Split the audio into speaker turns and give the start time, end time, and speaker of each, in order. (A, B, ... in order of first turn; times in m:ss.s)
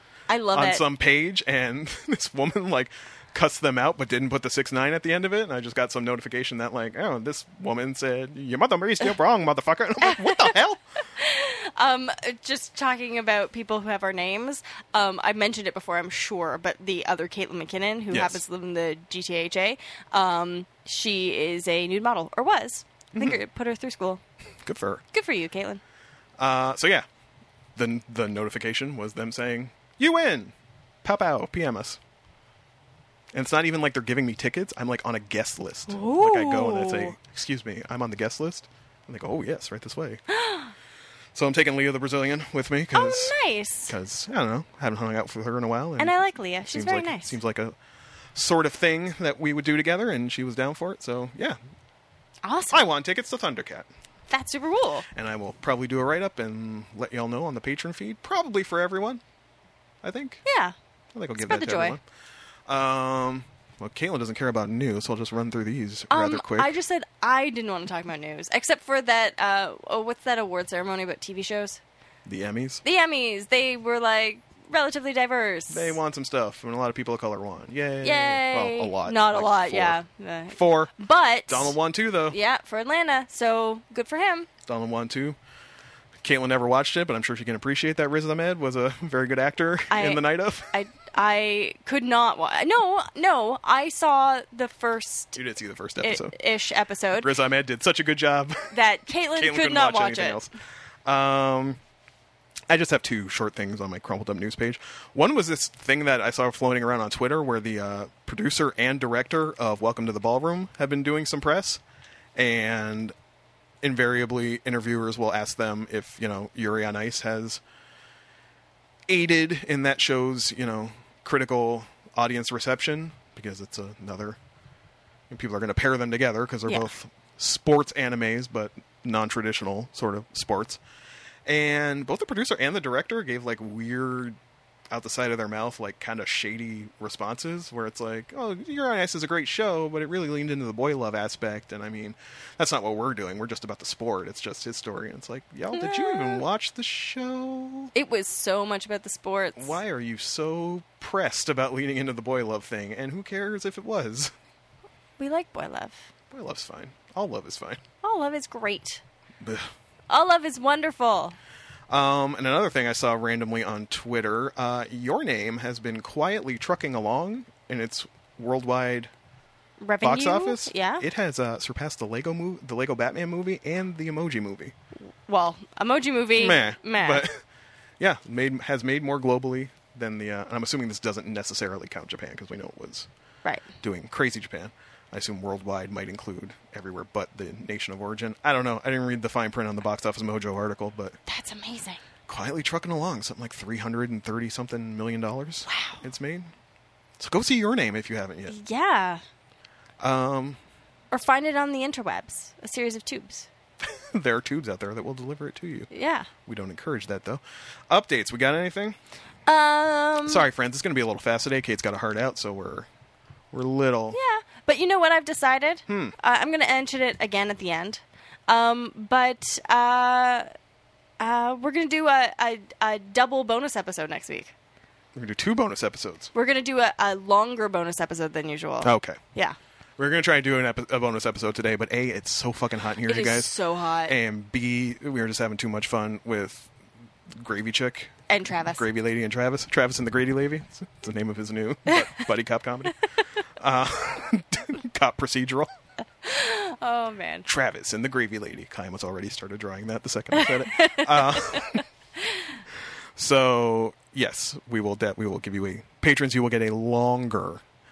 0:00.3-0:00.8 A
0:00.5-0:10.8 B
0:10.1-0:10.5 A
0:11.1-0:24.2 A
0:18.1-0:18.4 B
0:23.1-0:23.4 B
0:24.6-0:25.0 B
0:25.1-0:25.8 A
0:26.4-0:27.0 B
0:27.8-0:32.0 B
0:33.3-0:40.2 B
0:35.9-0:37.1 A
0:40.3-0:40.7 A
0:41.3-0:43.4 B
0:42.9-0:43.9 A
0:43.9-0:47.8 B
0:46.0-0:47.4 A
0:48.4-0:51.6 B
0:52.4-0:52.8 A
0:52.7-0:53.9 B
0:54.3-0:55.0 A
0:55.1-0:59.2 B
1:00.0-1:00.4 B
1:00.4-1:00.7 A
1:01.1-1:02.0 B
1:01.4-1:02.0 A
1:02.7-1:06.7 B
1:06.1-1:11.8 A
1:12.2-1:12.8 B
1:12.8-1:16.0 A
1:15.7-1:20.0 B
1:18.0-1:21.7 A
1:20.5-1:20.9 B
1:21.5-1:22.4 B
1:22.3-1:24.5 A
1:24.6-1:25.4 B
1:26.2-1:30.7 B
1:29.9-1:35.4 A
1:35.4-1:36.3 B
1:36.0-1:37.3 A
1:37.2-1:38.7 B
1:38.7-1:40.4 A
1:39.4-1:40.5 B
1:41.0-1:41.8 B
1:42.7-1:51.8 B
1:52.4-1:53.1 B
1:53.8-1:57.6 B
1:59.1-2:04.4 B
2:05.3-2:10.8 B
2:11.4-2:14.4 B
2:14.9-2:27.9 B
2:25.7-2:26.4 A
2:27.9-2:29.8 A
2:29.6-2:34.3 B
2:35.2-2:36.1 A
2:36.3-2:37.8 B
2:38.0-2:39.0 A
2:39.4-2:39.7 B
2:40.1-2:41.4 A
2:41.9-2:49.1 B
2:49.8-2:51.0 A
2:50.0-2:54.7 B
2:55.2-2:57.2 A
2:56.4-2:57.4 B
2:58.0-3:03.1 B
3:03.8-3:11.2 B
3:11.3-3:12.0 A
3:12.3-3:16.5 B
3:15.7-3:16.0 A
3:17.2-3:18.5 B
3:18.5-3:19.2 A
3:20.0-3:20.6 B
3:21.1-3:23.5 A
3:23.8-3:25.9 B
3:25.9-3:26.3 A
3:26.4-3:29.0 B
3:29.4-3:30.4 A
3:30.2-3:32.9 B
3:33.5-3:34.2 B
3:34.1-3:40.5 A
3:35.9-3:36.1 B
3:41.2-3:44.5 A
3:45.1-3:46.3 B
3:46.3-3:49.6 A
3:48.8-3:49.2 B
3:50.0-3:53.5 B
3:53.0-3:54.2 A
3:54.0-3:56.7 B
3:57.3-3:58.1 B
3:58.3-3:58.8 A
3:58.7-4:03.0 B
4:01.9-4:02.2 A
4:03.6-4:05.7 B
4:06.2-4:07.5 A
4:07.4-4:11.8 B
4:10.3-4:12.6 A
4:13.2-4:17.6 B